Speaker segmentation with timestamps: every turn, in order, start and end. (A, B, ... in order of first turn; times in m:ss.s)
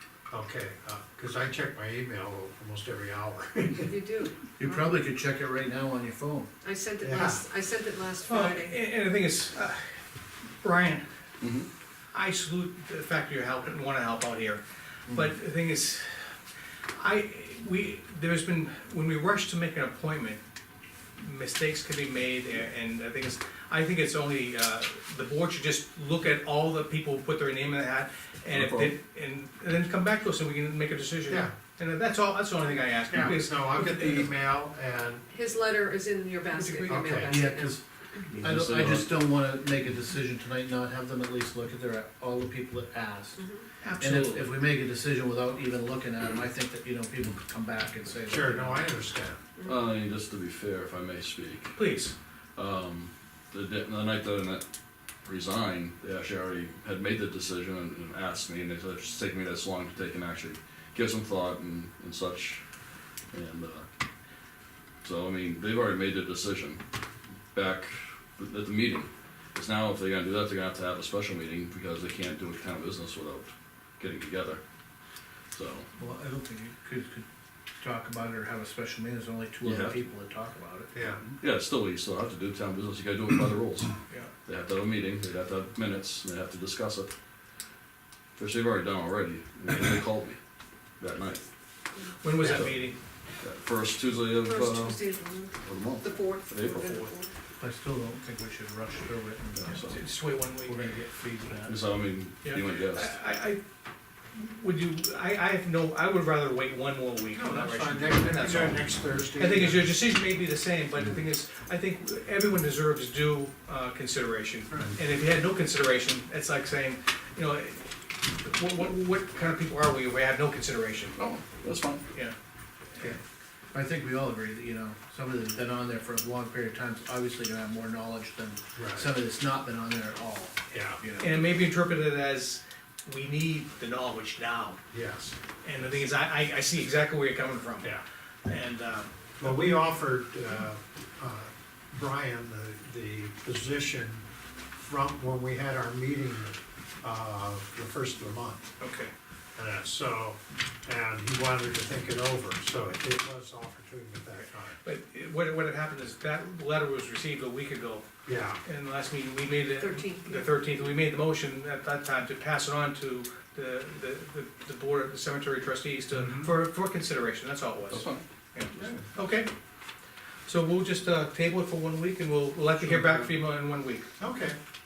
0:00.3-0:03.9 A
0:03.8-0:05.0 B
0:04.6-0:06.5 C
0:06.6-0:08.7 B
0:07.0-0:07.4 A
0:08.3-0:09.8 D
0:10.6-0:11.0 D
0:11.4-0:11.7 E
0:12.1-0:16.4 D
0:15.1-0:15.3 C
0:16.9-0:20.4 D
0:21.2-0:34.3 D
0:28.5-0:28.9 E
0:31.3-0:31.5 A
0:33.1-0:35.2 A
0:35.3-0:37.8 B
0:36.5-0:37.2 D
0:36.8-0:37.4 A
0:37.3-0:37.8 C
0:38.3-0:39.1 E
0:38.4-0:43.4 C
0:43.4-0:43.6 B
0:43.8-0:44.5 D
0:44.0-0:48.9 C
0:48.3-0:49.4 A
0:49.6-0:51.8 E
0:51.7-0:52.1 D
0:52.5-0:54.6 E
0:55.2-1:02.6 E
1:03.3-1:03.8 E
1:05.0-1:06.8 E
1:07.5-1:14.6 E
1:15.5-1:15.9 E
1:16.0-1:17.2 C
1:17.8-1:20.9 C
1:19.6-1:20.0 E
1:20.9-1:21.3 A
1:21.3-1:27.1 E
1:28.4-1:30.4 E
1:31.0-1:31.4 E
1:32.2-1:33.0 D
1:32.4-1:37.1 E
1:34.4-1:37.3 B
1:37.6-1:39.9 C
1:39.6-1:40.0 E
1:39.7-1:40.8 D
1:40.6-1:41.8 C
1:41.6-1:43.1 E
1:42.4-1:43.6 D
1:44.3-2:01.2 D
1:47.3-1:49.9 A
2:01.2-2:02.0 E
2:03.7-2:11.4 C
2:08.8-2:09.1 A
2:10.7-2:11.0 A
2:11.2-2:14.8 D
2:14.9-2:15.4 A
2:15.6-2:19.6 D
2:19.4-2:28.7 A
2:28.8-2:29.1 D
2:29.6-2:34.8 A
2:34.4-2:38.1 D
2:38.2-2:38.6 A
2:38.6-2:49.5 D
2:39.8-2:40.5 B
2:46.2-2:46.5 A
2:47.9-2:48.2 E
2:48.8-2:49.0 A
2:50.4-2:54.1 D
2:52.8-2:53.4 C
2:54.2-2:54.6 A